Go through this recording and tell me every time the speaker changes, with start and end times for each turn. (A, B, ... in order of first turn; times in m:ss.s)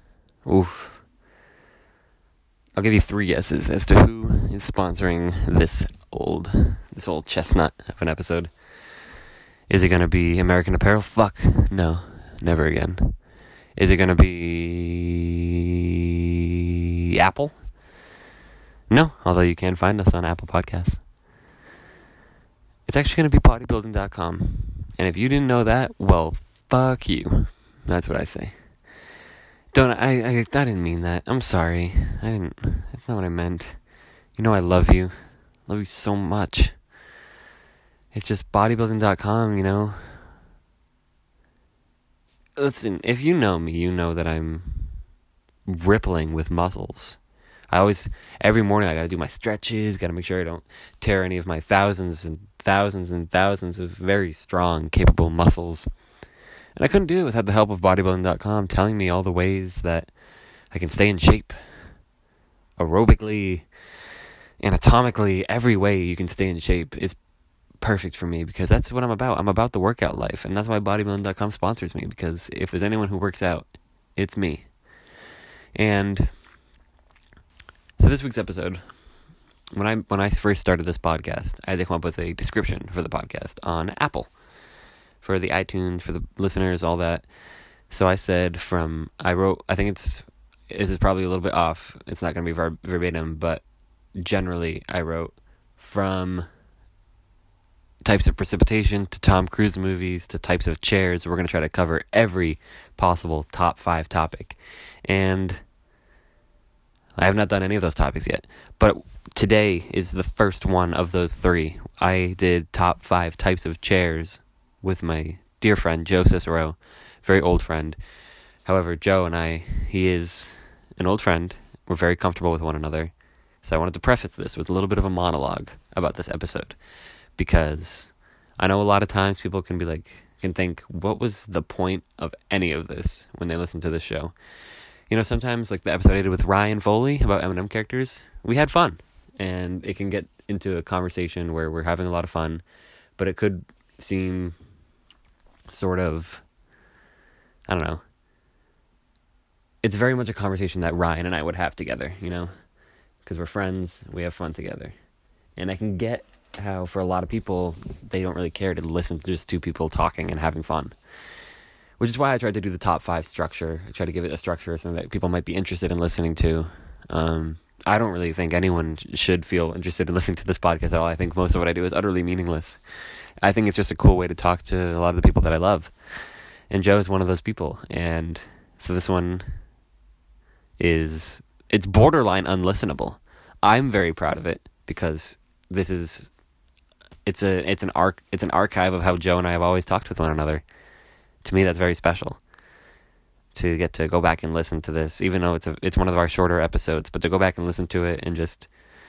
0:00.4-0:01.0 A
0:02.8-0:08.5 A
0:09.7-0:13.2 A
0:13.8-0:15.4 A
0:17.2-0:17.6 A
0:18.9-0:21.0 A
0:22.9-0:28.5 A
0:29.7-0:33.8 A
0:34.4-0:35.1 A
0:35.7-0:36.7 A
0:38.1-0:40.0 A
0:42.6-0:45.0 A
0:45.7-0:47.2 A
0:47.7-0:55.9 A
0:56.8-1:00.1 A
1:00.7-1:01.6 A
1:02.8-1:03.6 A
1:04.6-1:07.2 A
1:07.8-1:14.7 A
1:15.8-1:16.3 A
1:18.0-1:18.8 A
1:19.8-1:24.3 A
1:25.2-1:27.2 A
1:27.9-1:33.6 A
1:34.2-1:36.4 A
1:38.0-1:45.6 A
1:47.2-1:58.0 A
1:58.7-2:03.1 A
2:03.6-2:06.8 A
2:07.4-2:14.3 A
2:15.1-2:22.6 A
2:23.2-2:24.5 A
2:25.7-2:26.4 A
2:27.7-2:28.0 A
2:29.8-2:32.5 A
2:33.2-2:34.9 A
2:35.6-2:40.9 A
2:42.0-2:52.8 A
2:53.4-2:55.9 A
2:56.7-2:59.4 A
3:00.8-3:06.3 A
3:07.3-3:10.6 A
3:11.4-3:12.4 A
3:13.6-3:18.7 A